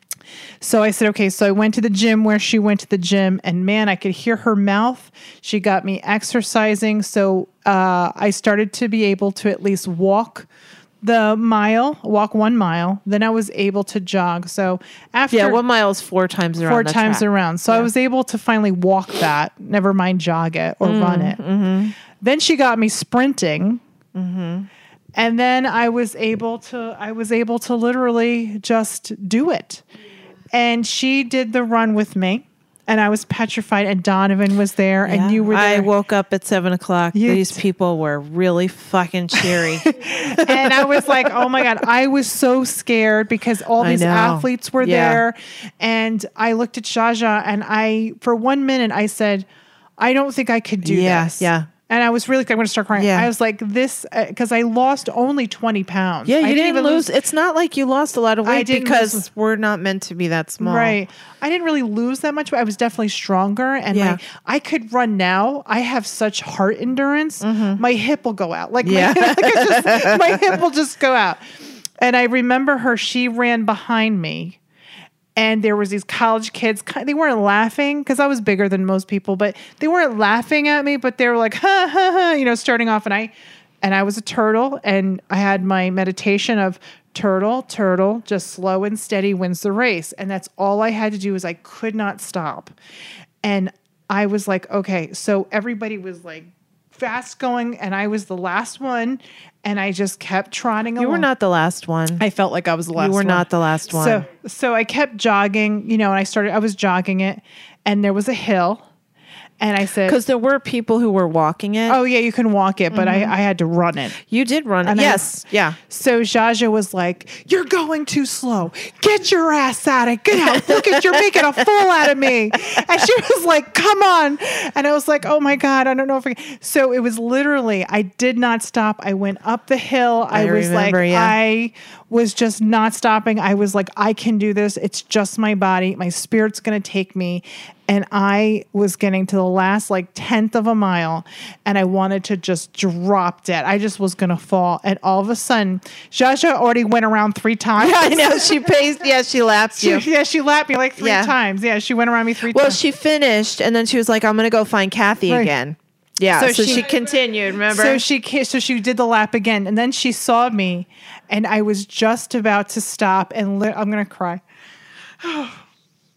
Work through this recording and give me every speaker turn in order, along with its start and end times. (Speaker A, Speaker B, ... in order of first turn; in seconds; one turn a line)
Speaker A: 0.6-10.5
Speaker A: 11.0-15.6
Speaker B: 15.3-17.9
Speaker A: 16.6-21.4
Speaker B: 20.8-21.9
Speaker A: 22.0-23.8
Speaker B: 24.1-24.7
Speaker A: 25.1-29.8
Speaker A: 30.5-35.9
Speaker B: 35.1-41.4
Speaker A: 37.1-37.6
Speaker A: 39.3-49.5
Speaker B: 43.8-45.2
Speaker A: 50.0-57.1
Speaker B: 50.8-51.7
Speaker B: 53.0-53.3
Speaker B: 56.3-61.0
Speaker A: 58.5-59.3
Speaker A: 60.6-71.4
Speaker B: 63.9-64.2
Speaker B: 67.4-67.8
Speaker B: 68.8-70.5
Speaker A: 72.0-74.6
Speaker A: 75.4-92.8
Speaker A: 93.4-101.3
Speaker B: 101.0-102.2
Speaker A: 102.2-108.9
Speaker B: 103.0-104.2
Speaker A: 109.6-110.2
Speaker B: 110.1-112.0
Speaker A: 111.9-114.2
Speaker B: 112.9-113.3
Speaker B: 114.2-115.8
Speaker A: 114.8-148.7
Speaker B: 120.5-121.1
Speaker B: 130.3-131.4
Speaker B: 147.8-150.1
Speaker A: 149.8-152.8
Speaker B: 151.0-151.3
Speaker B: 152.5-158.0
Speaker A: 155.3-155.5
Speaker A: 156.3-157.1
Speaker A: 157.7-164.4
Speaker A: 165.2-165.6